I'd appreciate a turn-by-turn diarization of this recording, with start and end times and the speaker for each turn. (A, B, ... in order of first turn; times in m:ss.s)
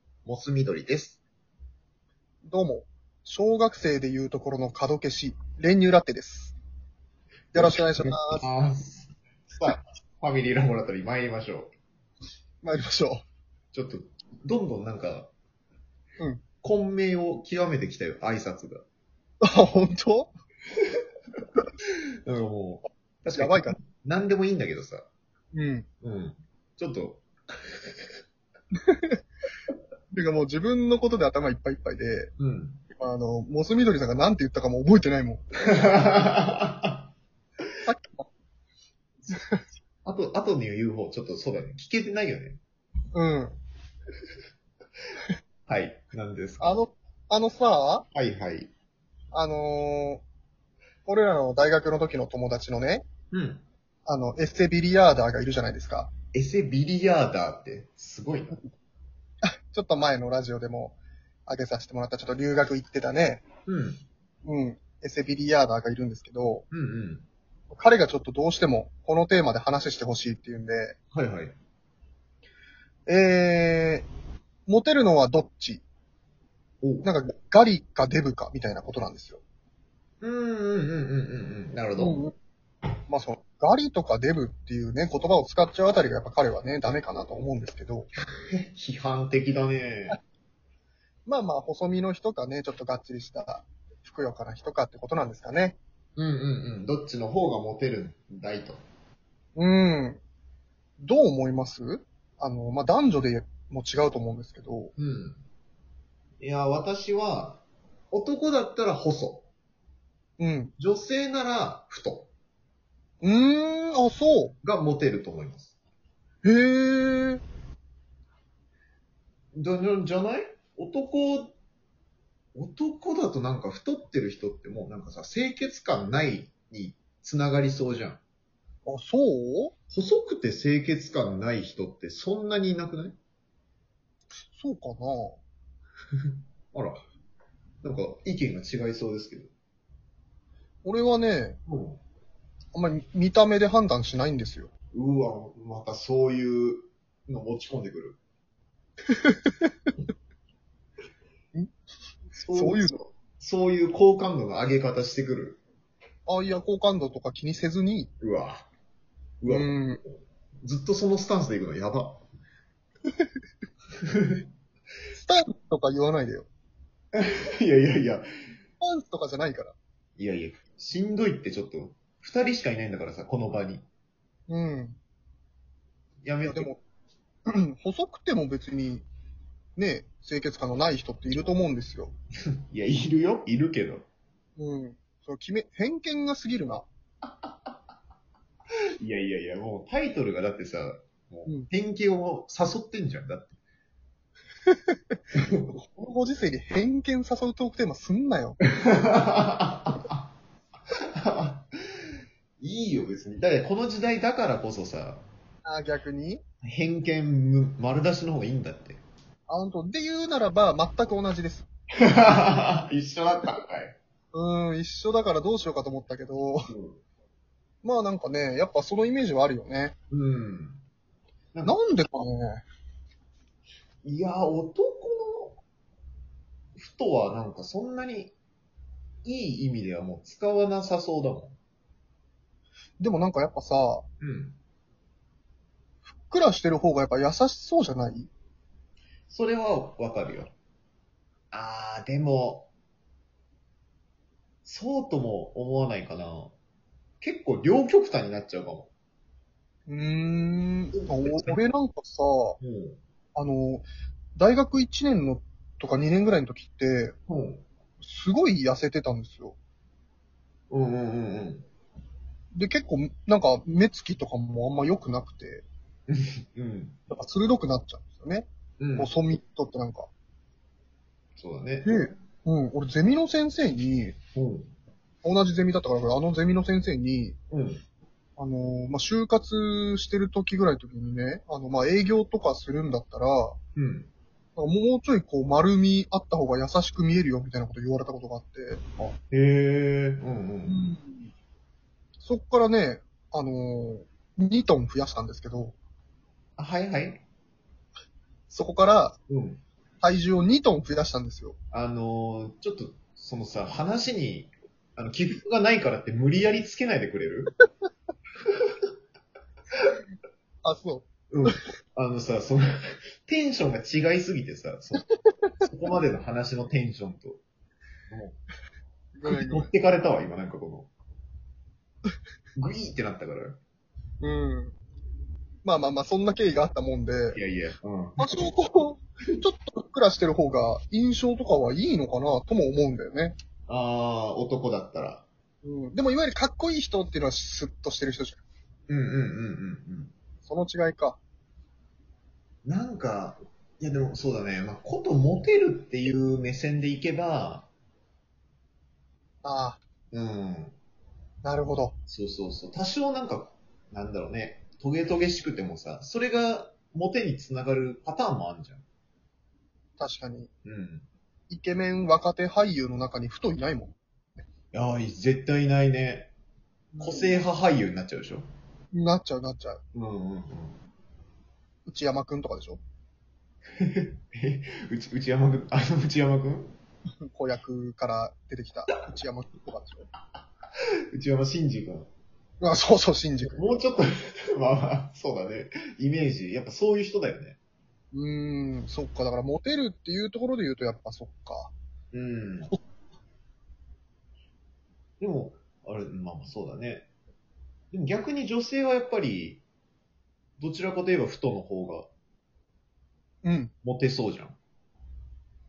0:00.2-0:01.2 A
0:02.4-0:06.5 B
0:07.5-0:08.5 B
0:07.5-0:11.7 A
0:12.6-0:13.2 B
0:13.7-0:15.3 A
0:16.6-0:18.8 A
0:19.4-0:20.3 B
0:21.9-0:25.0 A
0:23.3-0:23.8 B
0:25.5-0:25.9 B
0:26.0-0:27.9 A
0:28.8-0:29.2 B
0:30.1-0:32.3 B
0:32.4-0:32.8 A
0:32.9-0:35.4 B
0:35.7-0:37.0 A
0:37.8-0:38.2 B
0:39.3-0:39.6 B
0:40.0-0:42.6 A
0:43.1-0:43.6 B
0:45.7-0:46.8 A
0:46.6-0:48.1 B
0:48.1-0:48.7 A
0:49.3-0:50.2 B
0:51.0-0:53.1 B
0:53.3-0:53.6 A
0:54.0-0:56.1 B
0:56.3-0:58.6 A
0:59.6-1:03.4 B
1:03.7-1:04.0 A
1:04.4-1:06.6 B
1:06.7-1:07.2 A
1:07.7-1:11.0 B
1:11.1-1:11.5 A
1:13.1-1:14.1 B
1:14.7-1:15.8 B
1:16.8-1:17.1 A
1:17.0-1:19.4 B
1:20.2-1:22.2 A
1:22.0-1:22.3 B
1:23.1-1:28.1 B
1:28.5-1:30.2 A
1:31.2-1:35.8 B
1:36.2-1:38.8 A
1:39.6-1:40.2 B
1:41.0-1:44.9 B
1:45.0-1:45.4 A
1:46.4-1:49.4 A
1:50.4-1:50.7 B
1:50.8-1:52.3 A
1:53.2-1:54.5 B
1:54.6-1:55.8 A
1:56.4-1:57.4 B
1:59.5-2:01.6 A
2:02.5-2:08.2 A
2:08.8-2:09.7 B
2:09.9-2:13.2 A
2:14.5-2:15.4 B
2:16.7-2:17.0 A
2:17.8-2:19.5 A
2:20.8-2:21.6 B
2:21.7-2:22.0 A
2:22.7-2:24.7 B
2:24.9-2:28.2 A
2:29.2-2:29.7 B
2:32.4-2:35.6 A
2:32.5-2:33.0 B
2:36.2-2:38.1 B
2:38.2-2:38.7 A
2:39.4-2:42.2 A
2:39.5-2:40.0 B
2:44.0-2:44.4 A
2:45.1-2:46.5 B
2:47.1-2:48.3 A
2:48.8-2:49.8 B
2:50.2-2:53.8 A
2:54.5-2:55.0 B
2:56.2-2:56.7 A
2:56.5-2:56.8 B
2:57.5-2:59.1 B
2:59.8-3:02.1 B
3:02.7-3:04.0 A
3:04.6-3:06.9 B
3:09.0-3:13.6 A
3:15.7-3:18.6 B
3:18.7-3:20.2 A
3:21.2-3:21.7 A
3:22.6-3:25.2 A
3:25.6-3:26.4 B
3:26.6-3:29.0 A
3:29.5-3:31.6 B
3:32.0-3:34.0 A
3:34.3-3:36.7 B
3:36.7-3:37.0 A
3:37.8-3:40.0 B
3:40.1-3:40.8 A
3:41.6-3:42.6 B
3:44.0-3:45.6 A
3:46.8-3:48.3 A
3:49.2-3:51.6 A
3:53.0-3:54.1 B
3:54.2-3:54.6 A
3:56.0-3:58.3 B
3:59.3-4:00.5 A
4:01.5-4:02.7 A
4:04.6-4:06.5 A
4:07.2-4:08.9 A
4:09.9-4:12.6 B
4:10.9-4:11.6 A
4:12.6-4:13.0 A
4:13.3-4:17.2 B
4:17.3-4:17.6 A
4:18.0-4:19.6 B
4:20.7-4:21.7 A
4:22.5-4:25.6 B
4:26.1-4:27.0 A
4:27.1-4:30.1 B
4:28.8-4:29.1 A
4:31.4-4:32.0 A
4:31.8-4:34.2 B
4:34.3-4:34.7 A
4:35.2-4:37.4 B
4:37.5-4:37.8 A
4:38.4-4:43.6 B
4:43.8-4:44.1 A
4:44.6-4:48.8 B
4:49.0-4:50.9 A
4:50.6-4:51.3 B
4:52.2-4:55.8 B
4:56.6-4:57.2 A
4:58.5-4:59.2 B
4:59.3-4:59.6 A
5:00.0-5:01.6 B
5:01.7-5:07.5 A
5:10.6-5:11.6 B
5:11.3-5:15.1 A
5:15.6-5:17.4 A
5:18.1-5:18.4 A
5:19.1-5:19.7 B
5:19.2-5:20.9 A
5:22.6-5:23.6 A
5:24.2-5:24.8 B
5:25.6-5:27.4 B
5:27.3-5:28.2 A
5:28.2-5:33.4 B
5:33.7-5:35.2 A
5:35.6-5:38.4 B
5:38.9-5:40.1 A
5:40.4-5:41.2 B
5:42.6-5:47.7 A
5:49.4-5:49.8 B
5:50.1-5:50.7 A
5:51.4-5:52.0 B
5:52.1-5:58.8 A
6:00.0-6:00.5 B
6:00.6-6:01.1 A
6:01.5-6:04.0 B
6:04.7-6:06.3 A
6:07.0-6:07.4 B
6:07.0-6:08.5 A
6:08.9-6:09.8 B
6:09.9-6:10.8 A
6:11.8-6:12.8 B
6:13.8-6:16.8 A
6:17.2-6:20.1 B
6:21.1-6:22.1 A
6:22.6-6:23.8 B
6:23.4-6:27.6 A
6:28.1-6:31.7 B
6:32.1-6:32.7 A
6:35.2-6:37.1 A
6:37.9-6:39.6 A
6:40.6-6:42.1 A
6:43.4-6:43.7 B
6:43.8-6:44.6 A